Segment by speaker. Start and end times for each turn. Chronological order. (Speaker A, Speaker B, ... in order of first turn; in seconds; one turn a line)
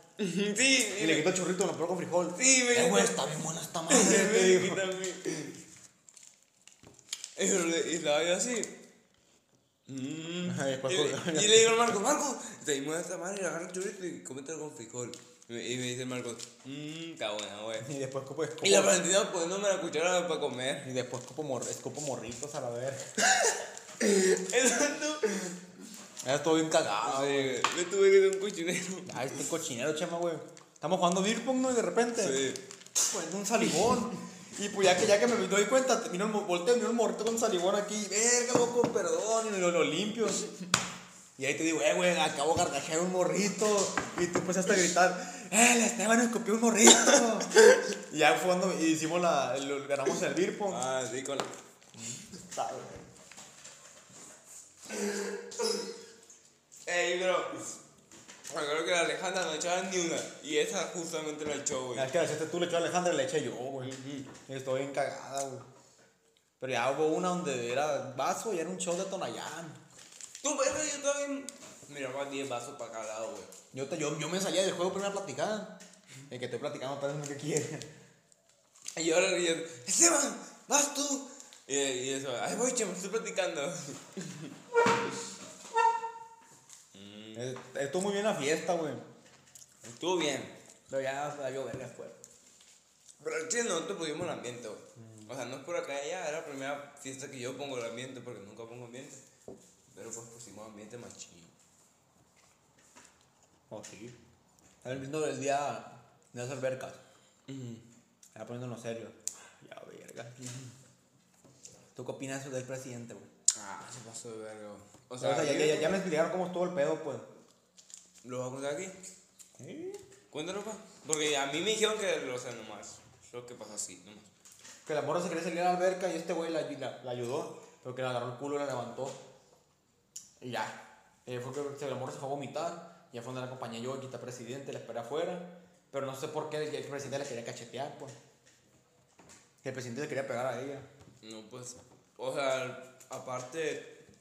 Speaker A: 0.2-1.4
Speaker B: 1.0-4.8
Speaker A: 2.3-3.2
Speaker A: 3.9-5.6
Speaker A: 7.3-8.7
Speaker A: 9.9-17.9
Speaker B: 10.4-11.8
Speaker B: 17.8-19.0
Speaker A: 18.6-20.9
Speaker B: 20.8-23.0
Speaker A: 23.3-25.6
Speaker B: 26.2-27.6
Speaker A: 27.0-29.3
Speaker B: 29.1-32.4
Speaker A: 32.2-32.6
Speaker B: 33.0-40.4
Speaker B: 41.4-47.5
Speaker B: 48.1-50.8
Speaker A: 50.7-51.5
Speaker B: 51.9-53.1
Speaker A: 54.9-55.3
Speaker A: 56.9-57.7
Speaker A: 58.5-62.1
Speaker B: 61.9-65.7
Speaker A: 63.8-64.3
Speaker B: 66.6-69.8
Speaker A: 70.4-73.5
Speaker B: 73.7-77.9
Speaker A: 79.0-84.5
Speaker A: 86.9-87.5
Speaker B: 87.3-89.0
Speaker A: 89.8-90.5
Speaker B: 90.9-92.2
Speaker A: 93.2-99.2
Speaker B: 95.0-95.3
Speaker A: 99.9-101.5
Speaker B: 103.7-104.2
Speaker B: 104.8-107.0
Speaker A: 107.5-107.8
Speaker B: 108.3-110.3
Speaker B: 111.9-113.3
Speaker A: 113.5-116.0
Speaker B: 115.2-117.3
Speaker A: 118.2-119.0
Speaker B: 119.6-120.0
Speaker A: 120.3-124.3
Speaker B: 124.8-129.2
Speaker B: 130.4-138.2
Speaker B: 139.6-140.9
Speaker A: 141.2-144.0